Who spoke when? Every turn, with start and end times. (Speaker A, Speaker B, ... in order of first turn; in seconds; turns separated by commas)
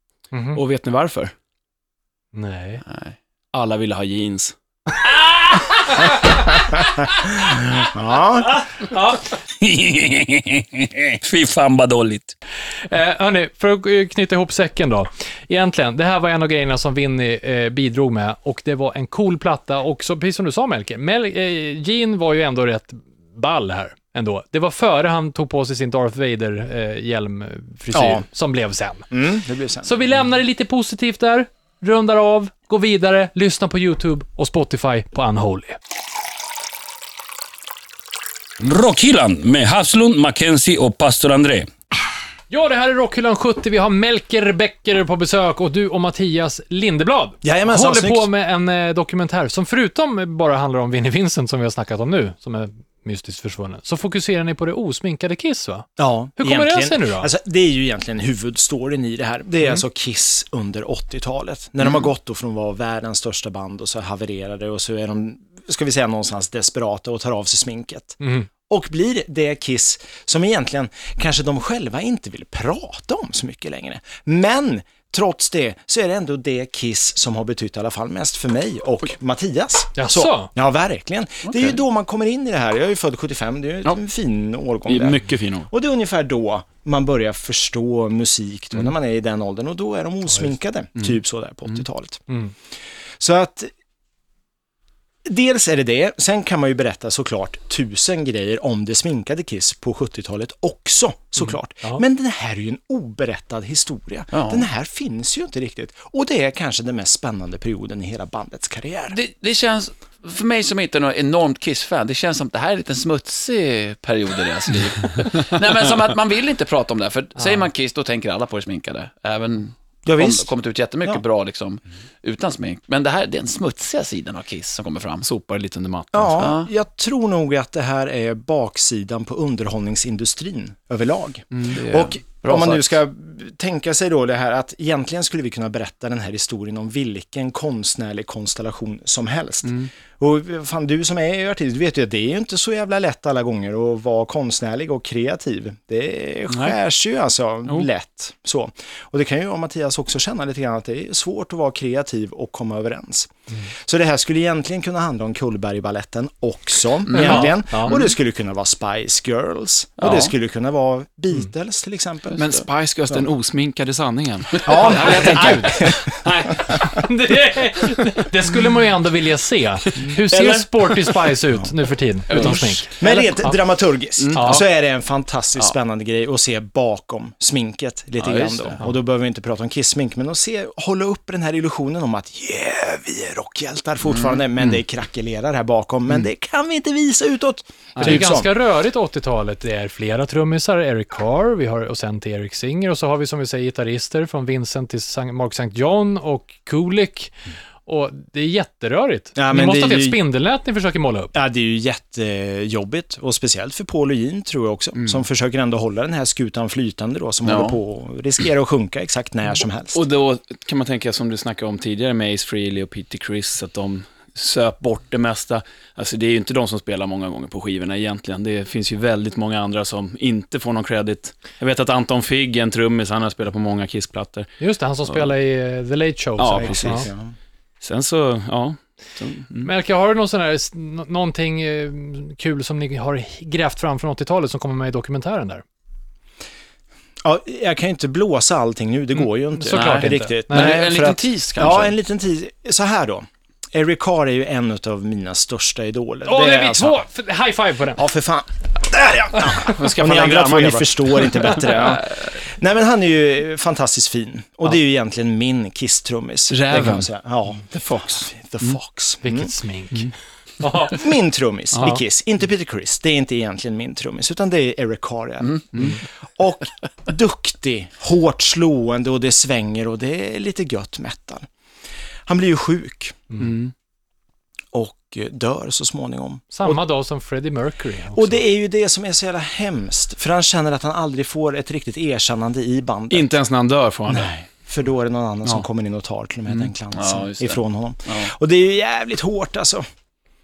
Speaker A: 0.3-0.6, Speaker B: 0.5-1.3, Speaker A: 2.3-2.8, Speaker C: 2.9-3.1, Speaker B: 3.5-4.5, Speaker A: 5.5-6.3, Speaker D: 6.8-8.6, Speaker A: 8.9-9.2, Speaker E: 9.6-12.3, Speaker A: 12.9-29.1, Speaker D: 27.9-28.2, Speaker D: 29.1-30.1, Speaker A: 29.8-35.8, Speaker E: 38.6-41.7, Speaker A: 42.5-57.3, Speaker D: 47.4-48.3, Speaker D: 56.0-92.3, Speaker A: 68.2-68.5, Speaker A: 80.0-80.5, Speaker B: 84.9-85.7, Speaker D: 93.2-93.7, Speaker D: 95.2-109.2, Speaker C: 104.3-104.7, Speaker C: 109.1-125.2, Speaker D: 120.0-120.5, Speaker B: 125.2-126.4, Speaker D: 126.1-162.4, Speaker C: 126.4-126.7, Speaker B: 131.5-132.1, Speaker C: 132.4-132.8, Speaker B: 139.6-139.9, Speaker B: 146.5-146.8, Speaker C: 157.1-158.1, Speaker A: 157.2-157.9, Speaker C: 160.0-160.3, Speaker C: 162.3-162.6, Speaker B: 162.4-165.8, Speaker D: 164.6-166.9, Speaker C: 164.7-165.4, Speaker A: 164.8-165.8, Speaker A: 166.7-173.5, Speaker B: 170.1-170.9, Speaker C: 172.3-172.6, Speaker D: 172.3-188.5, Speaker B: 174.2-174.6, Speaker A: 174.3-174.6, Speaker C: 178.2-178.8, Speaker A: 187.9-197.3, Speaker A: 197.8-201.3, Speaker D: 199.3-200.2, Speaker D: 201.3-210.0, Speaker C: 207.4-207.8, Speaker B: 209.9-224.5, Speaker A: 224.6-227.1, Speaker B: 226.4-227.1, Speaker D: 226.5-227.3, Speaker B: 227.8-229.7, Speaker A: 229.6-235.6, Speaker D: 237.2-247.0, Speaker A: 239.5-240.7, Speaker C: 240.5-241.9, Speaker A: 246.2-248.0, Speaker D: 247.9-259.5, Speaker B: 249.6-251.3, Speaker B: 256.5-257.1, Speaker B: 257.7-258.1, Speaker A: 259.2-261.0, Speaker D: 260.8-271.5, Speaker D: 272.3-273.3, Speaker B: 273.4-273.7, Speaker D: 274.7-276.8, Speaker A: 276.5-278.4, Speaker D: 278.1-283.3, Speaker B: 283.1-284.3, Speaker D: 284.1-289.9, Speaker C: 286.9-288.3